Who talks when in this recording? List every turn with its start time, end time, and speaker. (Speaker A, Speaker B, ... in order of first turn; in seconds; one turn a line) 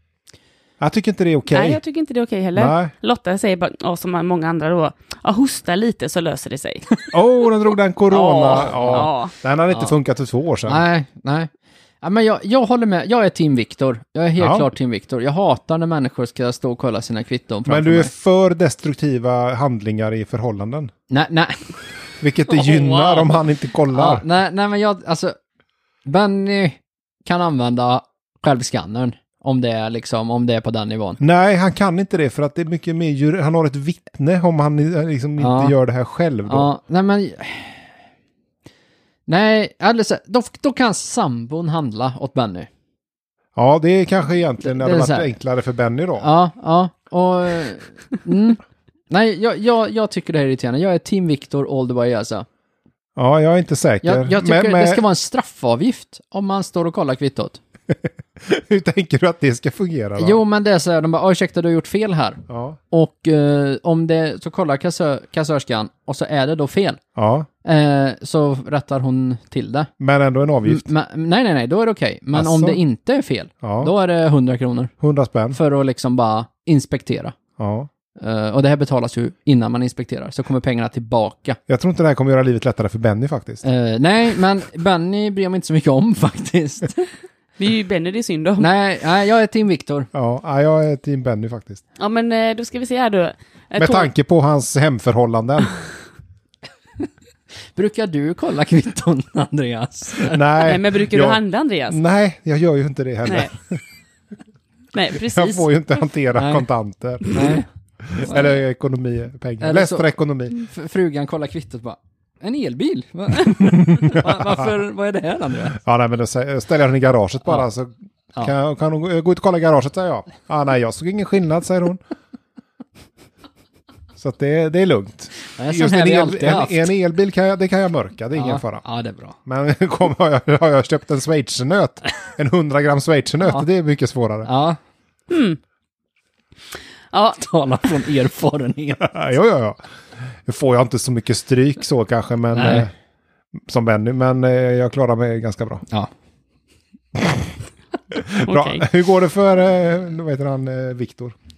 Speaker A: 0.8-1.8
Speaker B: 1.5-6.9
Speaker A: 2.5-2.9
Speaker A: 7.1-10.8
Speaker B: 8.1-9.3
Speaker C: 8.6-9.1
Speaker C: 10.7-18.1
Speaker A: 14.4-14.7
Speaker A: 17.7-20.9
Speaker C: 21.1-21.7
Speaker A: 22.2-24.2
Speaker B: 22.7-23.1
Speaker C: 23.9-25.4
Speaker C: 26.0-31.2
Speaker A: 31.2-36.7
Speaker C: 35.4-35.8
Speaker C: 36.5-37.9
Speaker C: 39.3-42.7
Speaker A: 43.5-46.3
Speaker C: 44.6-45.3
Speaker C: 46.2-52.5
Speaker A: 53.1-55.0
Speaker C: 54.0-57.6
Speaker A: 57.9-60.4
Speaker C: 60.2-67.0
Speaker A: 62.5-62.8
Speaker A: 67.2-67.5
Speaker C: 67.6-69.9
Speaker A: 70.0-70.9
Speaker C: 70.7-74.9
Speaker A: 72.3-72.8
Speaker A: 73.6-73.9
Speaker A: 75.0-75.6
Speaker C: 75.5-77.3
Speaker A: 77.6-77.9
Speaker C: 78.2-81.6
Speaker A: 81.7-83.6
Speaker C: 83.6-87.1
Speaker B: 87.6-88.7
Speaker C: 88.6-90.1
Speaker A: 90.1-91.8
Speaker B: 92.0-94.1
Speaker A: 93.8-95.8
Speaker C: 97.8-100.4
Speaker A: 100.3-103.8
Speaker B: 100.6-102.0
Speaker B: 104.9-105.7
Speaker A: 105.2-110.5
Speaker C: 106.3-106.7
Speaker C: 107.3-107.7
Speaker C: 109.6-115.8
Speaker A: 113.6-114.7
Speaker A: 115.7-122.0
Speaker A: 124.2-128.8
Speaker C: 125.5-126.9
Speaker C: 128.3-129.3
Speaker A: 129.4-134.5
Speaker C: 134.4-134.8
Speaker B: 135.3-135.6
Speaker B: 137.1-137.4
Speaker C: 137.4-139.2
Speaker A: 139.0-142.9
Speaker C: 142.5-142.9
Speaker A: 143.6-145.8
Speaker A: 147.2-147.5
Speaker A: 148.1-151.3
Speaker B: 148.4-148.8